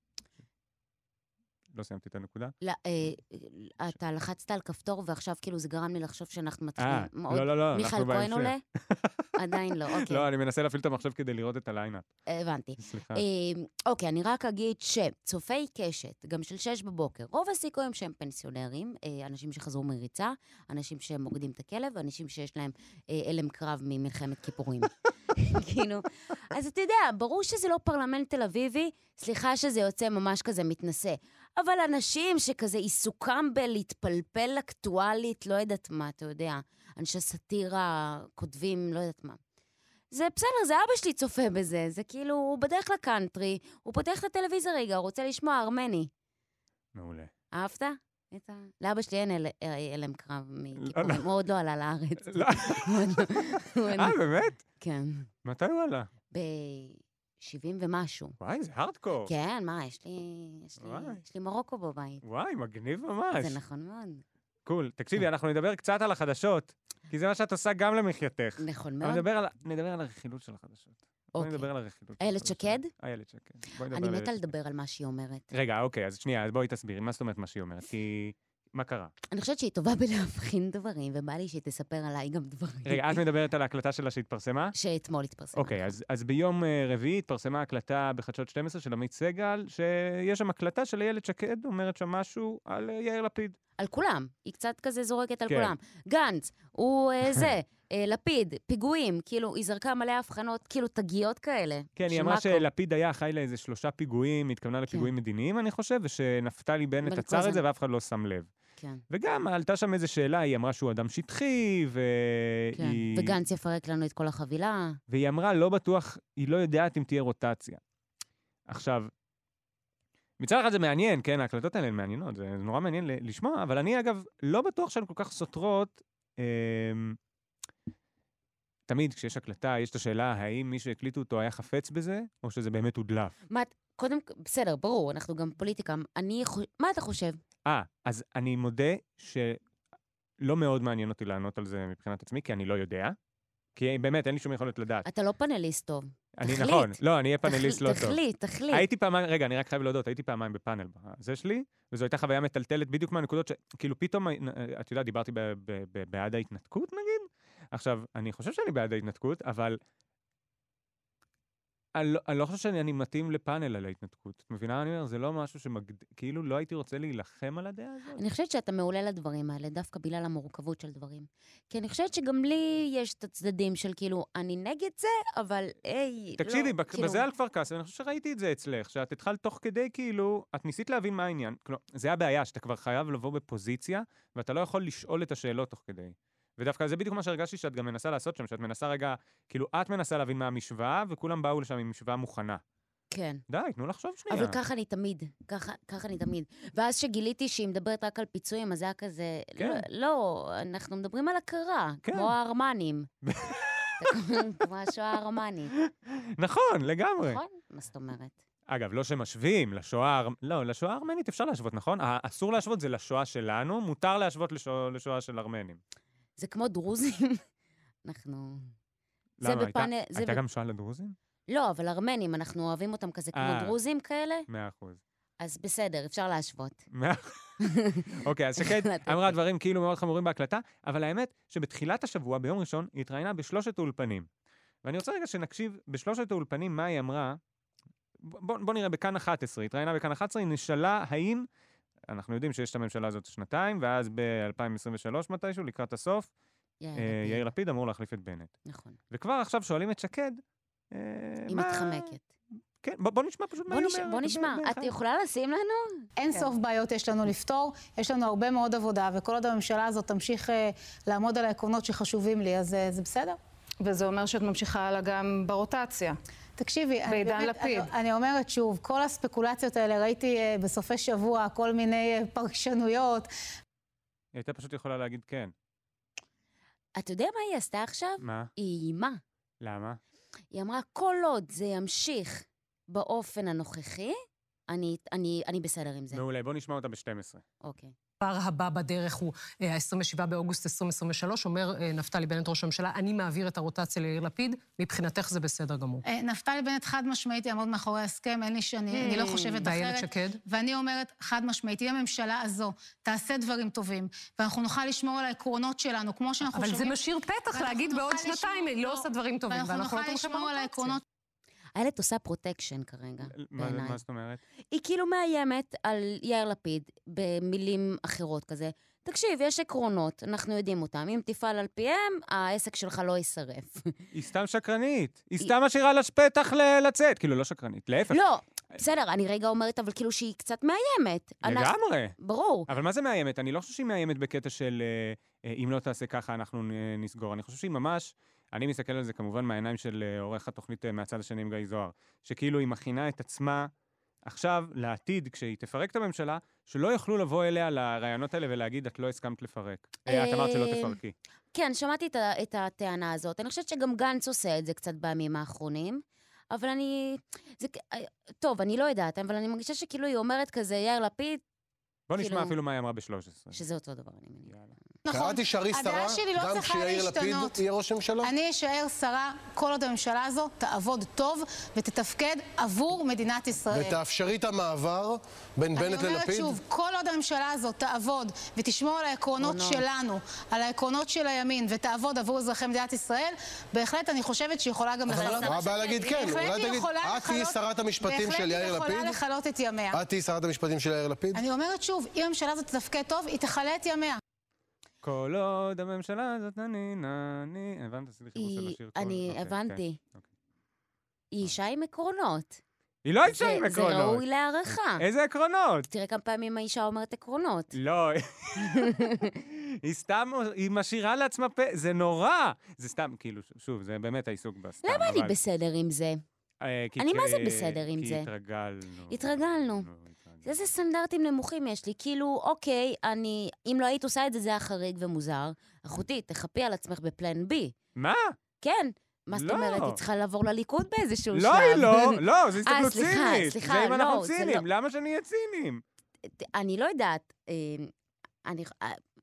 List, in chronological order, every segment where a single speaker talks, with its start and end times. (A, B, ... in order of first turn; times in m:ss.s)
0:01.7-0:02.5 A
0:02.6-0:08.6 B
0:06.8-0:09.3 A
0:09.4-0:10.2 B
0:09.9-0:12.0 A
0:12.3-0:39.4 B
0:12.8-0:13.2 A
0:40.1-0:46.1 B
0:46.9-0:47.3 A
0:47.5-0:54.2 B
0:50.8-0:51.2 A
0:52.3-0:53.4 A
0:53.9-0:54.6 A
0:54.8-0:55.3 B
0:55.4-0:56.1 A
0:56.3-0:58.3 B
0:58.4-0:59.3 A
0:59.3-1:02.2 B
1:00.8-1:01.2 A
1:02.2-1:03.6 A
1:03.4-1:04.2 B
1:04.6-1:14.5 A
1:08.6-1:09.2 B
1:11.4-1:12.9 B
1:13.9-1:15.4 B
1:15.5-1:19.1 A
1:19.3-1:23.2 B
1:22.8-1:24.7 A
1:24.7-1:25.9 B
1:25.6-1:33.6 A
1:33.8-1:42.6 B
1:35.5-1:35.7 A
1:42.0-1:48.5 A
1:47.0-1:47.6 B
1:49.1-1:53.4 A
1:52.8-1:55.0 B
1:55.1-1:57.8 A
1:58.7-1:59.1 A
2:00.4-2:07.2 A
2:08.9-2:13.3 A
2:13.5-2:17.4 B
2:17.6-2:19.6 A
2:20.4-2:23.2 A
2:23.8-2:25.0 A
2:25.0-2:28.8 B
2:26.4-2:28.2 A
2:28.7-2:39.8 A
2:41.9-2:48.2 A
2:48.2-2:57.2 B
2:56.4-3:12.6 A
3:13.1-3:13.4 B
3:13.5-3:14.6 A
3:14.3-3:23.1 B
3:19.6-3:19.8 A
3:22.0-3:22.3 A
3:23.2-3:24.2 A
3:24.0-3:25.7 B
3:25.7-3:27.4 A
3:27.2-3:28.3 B
3:28.7-3:35.8 A
3:36.4-3:37.4 B
3:38.0-3:38.7 B
3:39.4-3:41.2 A
3:39.4-3:40.4 B
3:41.5-3:44.4 B
3:43.3-3:43.8 A
3:44.5-3:45.0 A
3:45.4-3:46.8 B
3:46.9-3:47.6 A
3:47.6-3:48.1 B
3:48.2-3:54.3 A
3:48.6-3:49.3 B
3:54.8-3:57.4 A
3:58.2-4:01.4 A
4:02.1-4:06.3 A
4:06.8-4:07.5 B
4:07.0-4:08.5 A
4:08.6-4:09.0 B
4:09.1-4:10.4 A
4:10.9-4:12.1 A
4:11.5-4:12.2 B
4:12.8-4:14.9 A
4:13.7-4:16.0 B
4:16.2-4:23.4 C
4:23.8-4:26.2 D
4:26.6-4:33.3 C
4:27.0-4:27.9 D
4:34.3-4:35.5 A
4:37.0-4:39.2 B
4:38.2-4:38.5 A
4:39.6-4:40.0 A
4:40.5-4:44.2 B
4:44.7-4:46.2 B
4:46.1-4:47.4 A
4:47.6-4:47.9 B
4:48.2-4:56.0 E
4:56.0-5:07.0 C
4:59.0-4:59.6 B
4:59.0-5:00.4 E
5:06.4-5:11.0 E
5:07.5-5:11.0 C
5:11.7-5:14.0 B
5:13.3-5:14.4 A
5:14.7-5:24.0 B
5:24.1-5:28.2 A
5:28.1-5:32.7 B
5:31.4-5:32.2 A
5:32.7-5:43.7 A
5:44.2-5:51.1 A
5:50.1-5:51.0 B
5:51.5-6:01.4 B
6:02.1-6:03.6 A
6:02.2-6:02.5 B
6:03.5-6:04.5 B
6:04.5-6:04.7 A
6:05.0-6:07.6 C
6:05.1-6:08.3 F
6:08.2-6:14.0 C
6:13.7-6:16.6 F
6:15.8-6:30.0 C
6:19.4-6:19.8 B
6:25.1-6:29.2 F
6:29.9-6:31.4 F
6:31.3-6:34.2 C
6:35.0-6:40.2 A
6:38.4-6:40.0 B
6:41.3-6:42.6 B
6:43.0-6:45.9 A
6:43.3-6:45.0 B
6:45.9-6:47.7 B
6:47.7-6:55.4 A
6:48.6-6:49.3 B
6:54.8-6:56.2 B
6:56.6-7:00.7 A
6:57.0-6:58.3 B
6:59.1-6:59.9 B
7:00.4-7:07.7 B
7:08.0-7:08.4 A
7:08.6-7:14.6 B
7:09.3-7:10.0 A
7:11.3-7:15.8 A
7:16.3-7:17.9 B
7:18.4-7:19.0 B